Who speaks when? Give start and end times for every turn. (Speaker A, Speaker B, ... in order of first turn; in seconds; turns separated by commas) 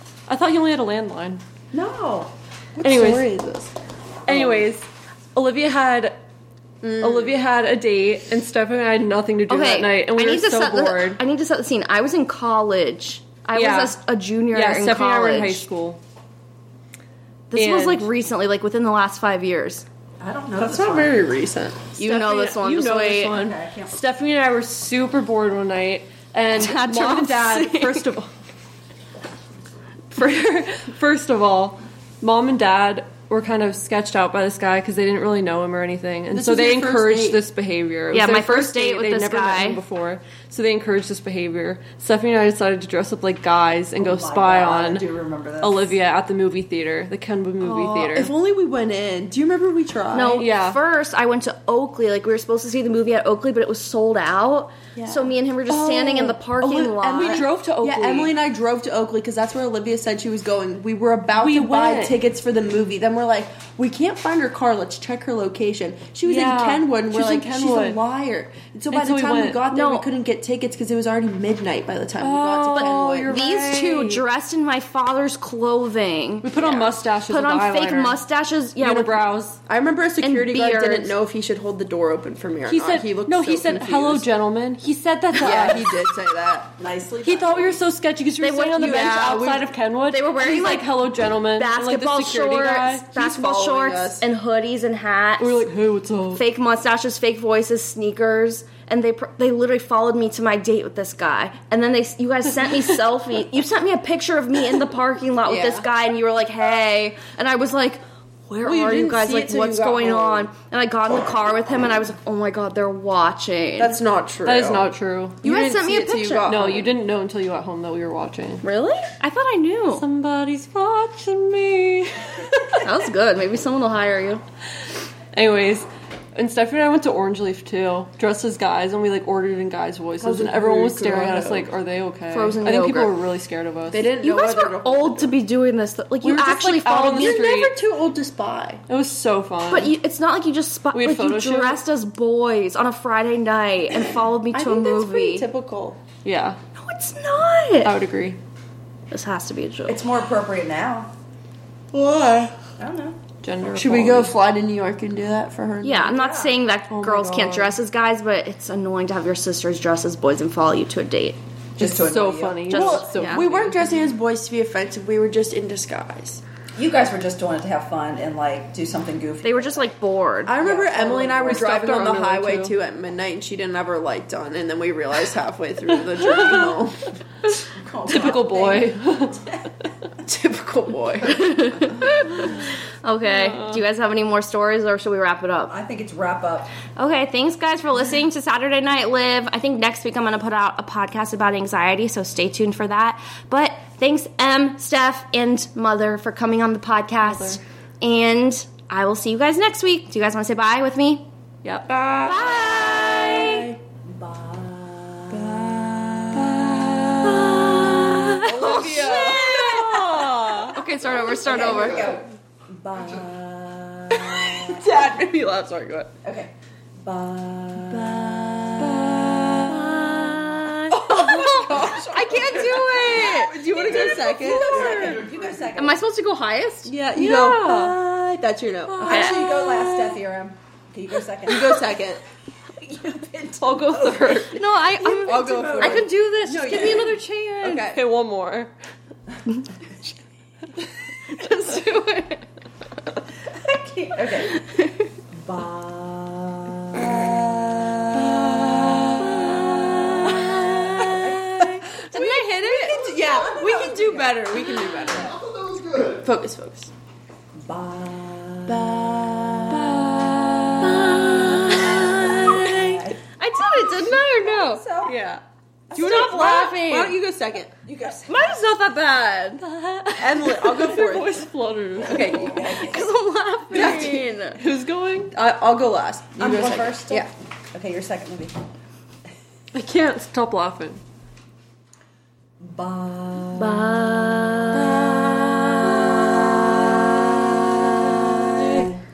Speaker A: 0.3-1.4, Speaker B: 1.7-2.3, Speaker C: 2.8-3.7, Speaker A: 2.8-3.3, Speaker A: 4.2-6.2, Speaker C: 4.3-4.7, Speaker C: 6.8-7.3, Speaker A: 7.0-11.2, Speaker D: 9.5-15.6, Speaker A: 13.5-14.0, Speaker A: 14.5-16.0, Speaker D: 17.5-19.8, Speaker A: 17.5-18.1, Speaker B: 20.2-21.2, Speaker C: 20.6-21.9, Speaker D: 22.0-23.5, Speaker A: 22.0-28.3, Speaker B: 23.3-24.0, Speaker D: 26.5-28.1, Speaker A: 30.1-45.0, Speaker C: 36.3-37.4, Speaker D: 38.1-39.8, Speaker B: 44.0-45.9, Speaker A: 45.6-48.3, Speaker C: 47.6-50.5, Speaker D: 50.1-57.5, Speaker A: 50.4-50.8, Speaker C: 54.9-73.5, Speaker A: 57.1-58.3, Speaker A: 61.3-62.2, Speaker A: 66.2-68.0, Speaker A: 68.9-69.6, Speaker D: 69.7-70.0, Speaker A: 72.2-74.2, Speaker D: 72.7-79.2, Speaker A: 76.4-78.2, Speaker A: 78.8-79.6, Speaker C: 79.7-84.2, Speaker D: 80.2-81.2, Speaker A: 82.6-86.1, Speaker C: 85.3-86.7, Speaker B: 86.8-87.8, Speaker A: 87.2-93.1, Speaker D: 88.4-90.9, Speaker C: 88.8-89.7, Speaker D: 91.5-95.7, Speaker C: 93.1-94.3, Speaker A: 95.4-96.4, Speaker D: 96.3-114.0, Speaker C: 105.4-105.8, Speaker C: 108.6-110.5, Speaker C: 113.8-116.9, Speaker A: 114.4-115.4, Speaker D: 115.4-116.5, Speaker A: 116.4-118.6, Speaker D: 118.6-120.0, Speaker A: 119.9-122.8, Speaker D: 122.8-124.4, Speaker A: 125.3-134.1, Speaker C: 130.2-131.7, Speaker D: 132.3-133.1, Speaker C: 133.9-135.3, Speaker D: 134.1-137.4, Speaker A: 136.2-137.8, Speaker C: 137.0-138.8, Speaker A: 138.9-139.9, Speaker D: 139.7-145.5, Speaker A: 140.9-141.8, Speaker C: 144.5-146.0, Speaker A: 146.2-146.6, Speaker D: 146.8-147.9, Speaker A: 147.8-148.4, Speaker D: 149.1-150.0, Speaker B: 149.9-151.1, Speaker C: 151.9-152.6, Speaker B: 152.8-153.2, Speaker A: 153.4-154.3, Speaker C: 153.7-156.2, Speaker D: 155.8-161.4, Speaker B: 156.1-156.6, Speaker C: 156.9-157.7, Speaker B: 161.8-162.8, Speaker A: 161.8-164.0, Speaker C: 162.7-166.4, Speaker D: 162.7-163.4, Speaker B: 166.8-169.9, Speaker D: 169.4-170.9, Speaker C: 170.4-177.1, Speaker B: 170.6-171.6, Speaker A: 171.0-172.8, Speaker A: 176.2-176.7, Speaker B: 177.7-179.0, Speaker A: 178.1-179.5, Speaker C: 180.2-181.5, Speaker D: 181.2-185.7, Speaker A: 183.2-183.8, Speaker B: 185.7-186.7, Speaker D: 186.9-201.2, Speaker A: 197.2-197.6, Speaker A: 201.6-201.9, Speaker C: 201.9-203.8, Speaker D: 202.2-203.7, Speaker B: 204.1-206.9, Speaker C: 205.3-205.7, Speaker C: 206.4-207.7, Speaker D: 207.2-209.9, Speaker C: 208.3-210.7, Speaker B: 208.5-210.2, Speaker A: 208.7-209.8, Speaker D: 210.7-212.2, Speaker B: 211.0-215.0, Speaker C: 214.4-216.1, Speaker B: 216.2-219.8, Speaker D: 219.6-225.2, Speaker C: 220.9-225.2, Speaker B: 221.5-226.0, Speaker D: 225.7-228.0, Speaker C: 226.8-229.6, Speaker A: 228.9-229.3, Speaker B: 229.0-232.0, Speaker D: 229.1-229.4, Speaker C: 231.5-232.2, Speaker B: 232.8-236.1, Speaker A: 233.6-234.6, Speaker D: 234.5-237.8, Speaker C: 235.1-238.0, Speaker A: 236.7-238.7, Speaker D: 241.3-242.4, Speaker B: 243.5-244.6, Speaker D: 244.6-245.1, Speaker B: 245.3-251.9, Speaker D: 249.2-251.3, Speaker C: 250.9-251.2, Speaker D: 252.1-253.0, Speaker C: 252.5-255.4, Speaker B: 252.7-254.6, Speaker C: 256.0-256.9, Speaker B: 257.6-265.2, Speaker C: 258.7-259.5, Speaker D: 260.8-264.8, Speaker A: 265.0-265.4, Speaker B: 265.9-266.6, Speaker C: 265.9-267.7, Speaker D: 265.9-267.2, Speaker B: 267.8-268.6, Speaker D: 268.3-270.9, Speaker C: 270.2-271.5, Speaker A: 270.6-272.5, Speaker B: 272.0-273.1, Speaker D: 272.0-274.6, Speaker C: 273.7-274.2, Speaker A: 273.7-275.3, Speaker C: 275.3-277.3, Speaker B: 276.4-278.6, Speaker A: 279.7-281.0, Speaker B: 282.6-288.9, Speaker D: 283.5-285.0, Speaker A: 288.5-289.0